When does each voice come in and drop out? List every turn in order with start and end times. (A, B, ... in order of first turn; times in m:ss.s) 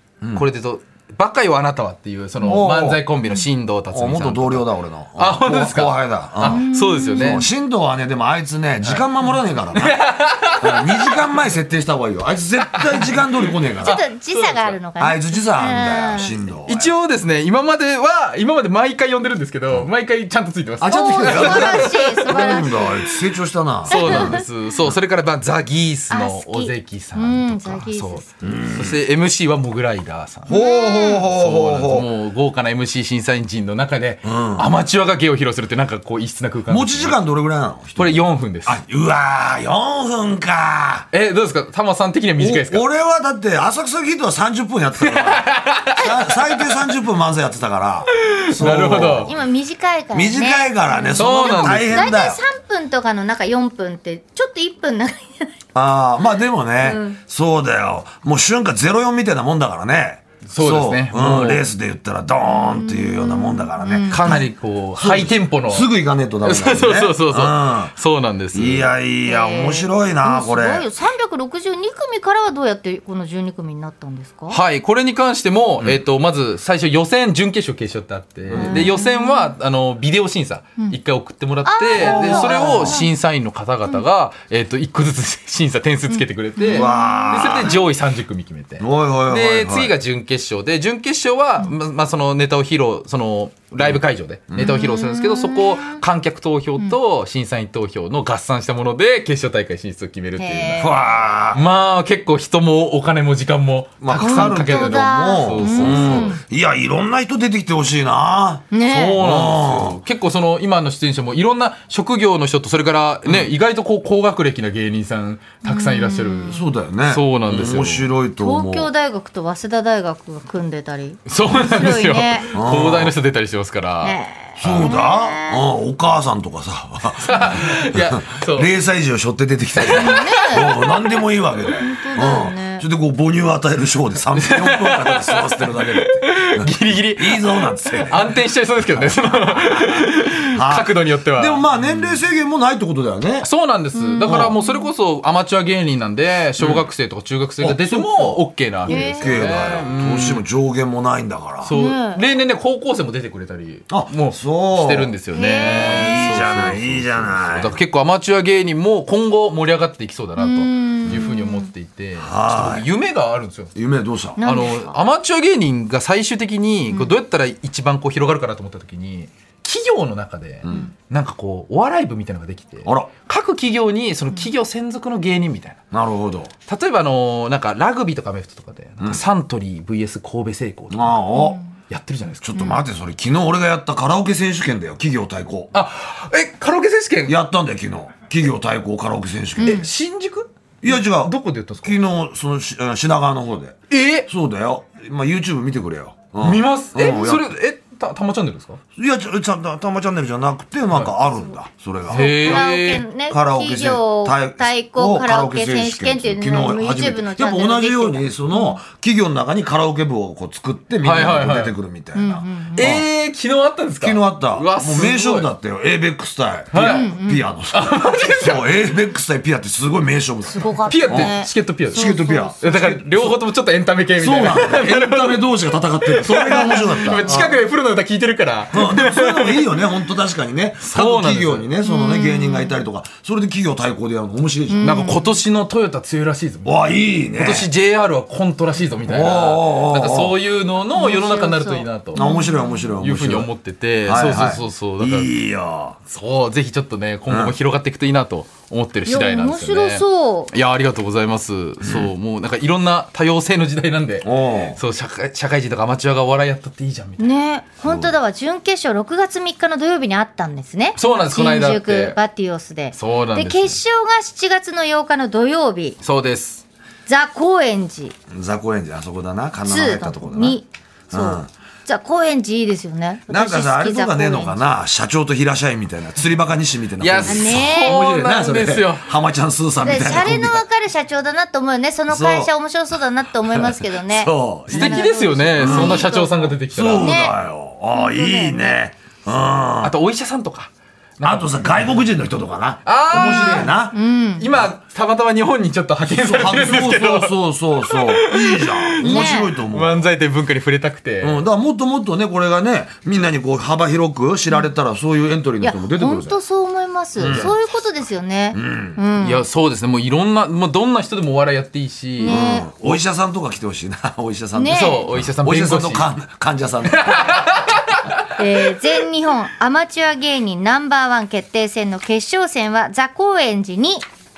0:00.3-0:07.5 A
0:02.4-0:03.0 B
0:03.9-0:10.0 B
0:06.4-0:07.5 C
0:08.8-0:09.0 A
0:09.7-0:11.2 A
0:10.5-0:14.0 B
0:12.7-0:14.8 A
0:13.8-0:16.5 C
0:15.0-0:16.9 B
0:16.7-0:22.8 A
0:20.8-0:24.4 B
0:20.9-0:23.2 C
0:23.8-0:30.5 A
0:23.9-0:24.5 C
0:26.1-0:28.3 C
0:28.4-0:29.0 B
0:30.5-0:32.1 B
0:30.5-0:31.3 C
0:31.3-0:37.2 A
0:34.2-0:34.7 B
0:36.7-0:41.1 B
0:38.0-0:38.8 A
0:41.1-0:42.8 A
0:42.4-0:49.3 B
0:45.0-0:46.7 A
0:48.1-0:49.3 A
0:49.2-0:55.5 C
0:50.1-0:52.4 B
0:51.2-0:52.1 A
0:55.7-1:07.9 B
0:56.8-0:57.2 C
1:00.4-1:01.6 A
1:02.5-1:04.4 C
1:04.1-1:05.9 A
1:06.4-1:08.9 A
1:08.5-1:10.8 B
1:09.2-1:14.6 C
1:14.5-1:40.9 A
1:18.5-1:18.9 B
1:18.6-1:19.5 C
1:21.6-1:23.1 C
1:22.0-1:23.0 B
1:26.6-1:27.7 C
1:26.7-1:27.8 B
1:28.8-1:29.9 B
1:34.5-1:34.8 B
1:34.6-1:36.0 C
1:40.4-1:41.2 C
1:40.8-1:41.6 B
1:41.5-1:46.4 A
1:44.0-1:50.0 B
1:44.2-1:46.4 C
1:48.7-1:49.2 C
1:48.8-1:58.1 A
1:55.6-1:56.6 C
1:56.5-1:58.9 B
1:58.4-2:02.5 C
2:01.3-2:04.9 A
2:02.5-2:03.1 B
2:04.0-2:05.6 C
2:04.6-2:18.3 B
2:07.2-2:08.7 A
2:09.8-2:11.0 A
2:09.9-2:11.2 C
2:11.8-2:12.8 C
2:14.3-2:22.2 A
2:18.9-2:19.9 B
2:20.5-2:23.5 B
2:23.4-2:30.4 A
2:23.9-2:24.9 C
2:24.2-2:24.5 B
2:26.6-2:26.8 B
2:27.6-2:31.7 B
2:28.9-2:29.7 C
2:31.6-2:43.7 A
2:31.7-2:32.2 C
2:33.9-2:37.8 B
2:35.3-2:36.7 C
2:40.4-2:41.7 C
2:42.2-2:42.8 B
2:43.7-2:44.4 B
2:44.4-2:45.0 C
2:44.4-2:55.8 A
2:46.9-2:47.1 C
2:50.6-2:50.9 B
2:52.8-2:53.1 B
2:55.9-2:56.5 B
2:56.7-3:02.6 A
3:00.9-3:01.6 B
3:01.3-3:01.7 C
3:02.4-3:05.7 B
3:02.5-3:02.8 C
3:05.7-3:07.4 A
3:07.2-3:09.8 B
3:09.6-3:09.9 C
3:09.6-3:12.0 A
3:10.8-3:17.5 B
3:13.9-3:14.3 A
3:16.4-3:18.8 A
3:19.0-3:22.7 B
3:22.1-3:28.8 C
3:22.1-3:23.0 A
3:23.3-3:33.0 B
3:31.0-3:31.7 A
3:32.1-3:33.0 C
3:32.7-3:35.5 A
3:34.0-3:41.4 B
3:36.7-3:37.1 A
3:36.7-3:37.5 C
3:37.7-3:38.7 A
3:40.5-3:42.8 C
3:40.8-3:42.1 A
3:41.9-3:43.4 B
3:42.6-3:45.4 A
3:44.2-3:47.6 B
3:46.0-3:49.8 A
3:46.6-3:47.4 C
3:48.7-3:55.1 B
3:50.8-3:51.7 A
3:51.8-3:52.8 C
3:54.7-3:55.3 C
3:54.8-3:56.7 A
3:56.6-3:57.7 B
3:57.3-4:02.2 A
3:59.1-4:00.3 B
4:00.9-4:02.8 C
4:02.2-4:03.5 B
4:03.0-4:05.3 A
4:04.0-4:06.0 B
4:06.1-4:17.3 A
4:07.3-4:07.5 B
4:09.0-4:10.5 C
4:11.8-4:12.1 B
4:14.2-4:14.8 B
4:17.2-4:26.0 C
4:17.8-4:18.1 B
4:21.0-4:22.2 A
4:22.9-4:23.8 A
4:26.0-4:26.6 A
4:27.1-4:28.2 C
4:28.3-4:30.6 B
4:29.7-4:34.6 C
4:31.1-4:31.5 B
4:33.3-4:40.6 B
4:37.0-4:39.1 A
4:37.2-4:38.0 C
4:39.8-4:47.4 C
4:42.1-4:42.5 B
4:43.5-4:45.0 B
4:44.7-4:47.3 A
4:45.6-4:46.1 B
4:46.7-4:49.9 B
4:47.9-4:48.8 C
4:49.8-4:51.9 A
4:51.2-4:54.0 B
4:52.8-4:53.7 A
4:53.1-4:54.5 C
4:54.4-5:01.4 A
4:56.1-5:00.0 B
4:59.0-4:59.5 C
5:01.2-5:06.4 B
5:05.6-5:09.4 C
5:07.2-5:07.5 B
5:07.3-5:07.5 A
5:08.5-5:09.0 B
5:09.2-5:13.0 A
5:12.2-5:12.7 C
5:12.3-5:17.7 B
5:14.5-5:15.1 C
5:14.7-5:16.1 A
5:16.8-5:19.0 A
5:18.4-5:24.0 C